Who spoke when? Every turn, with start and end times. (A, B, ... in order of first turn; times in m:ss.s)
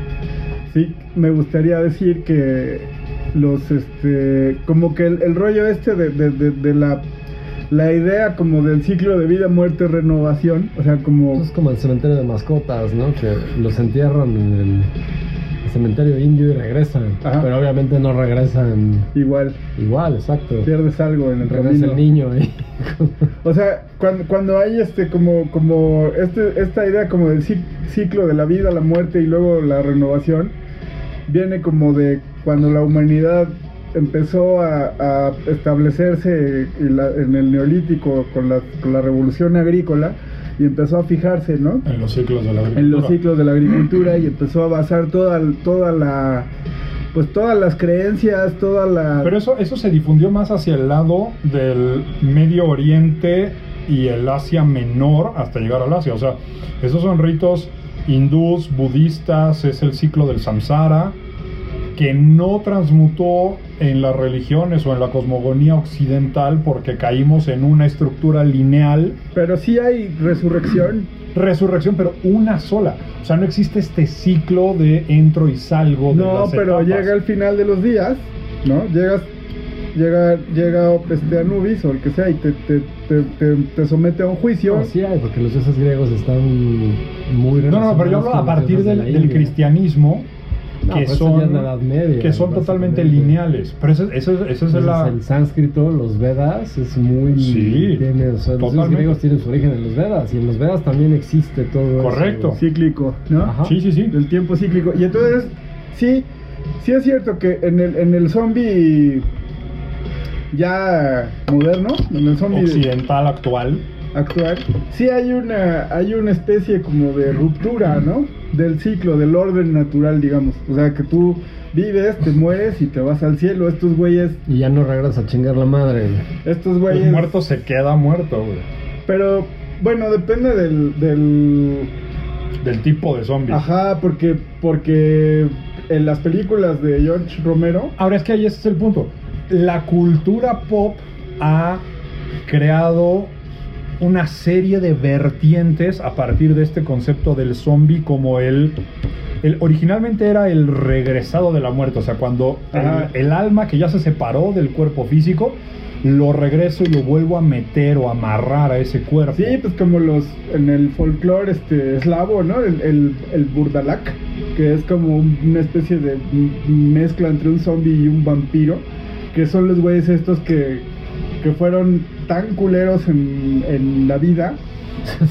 0:00.7-0:07.0 A
0:07.7-0:11.4 A
0:11.3-0:14.9 B
0:15.6-0:19.1 B
0:17.2-0:17.5 A
0:19.1-0:19.6 A
0:19.8-0:20.7 B
0:20.6-0:22.0 A
0:21.4-0:23.3 B
0:23.4-0:30.5 A
0:31.3-0:41.8 A
0:41.8-0:43.2 C
0:42.7-0:46.5 A
0:47.1-0:49.3 A
0:49.2-1:01.2 C
1:01.9-1:09.2 C
1:09.3-1:11.1 A
1:11.3-1:17.1 C
1:16.1-1:19.3 A
1:19.9-1:24.9 A
1:24.6-1:29.5 B
1:27.7-1:30.3 C
1:30.8-1:33.4 B
1:30.9-1:35.2 C
1:34.7-1:42.6 B
1:37.3-1:38.0 C
1:38.6-1:39.2 C
1:42.0-1:42.6 C
1:42.5-1:43.6 A
1:43.4-1:43.8 B
1:43.6-1:44.1 C
1:44.1-1:46.3 A
1:46.8-1:49.2 A
1:50.5-1:52.8 A
1:52.5-1:53.8 C
1:54.1-2:04.4 A
2:04.5-2:06.2 B
2:06.4-2:07.5 A
2:06.9-2:08.7 C
2:09.1-2:11.9 A
2:12.6-2:13.6 C
2:13.5-2:17.9 A
2:18.0-2:21.8 C
2:22.4-2:23.3 C
2:24.0-2:28.8 C
2:29.4-2:39.6 C
2:32.7-2:33.1 A
2:39.3-2:50.8 A
2:51.4-2:54.6 A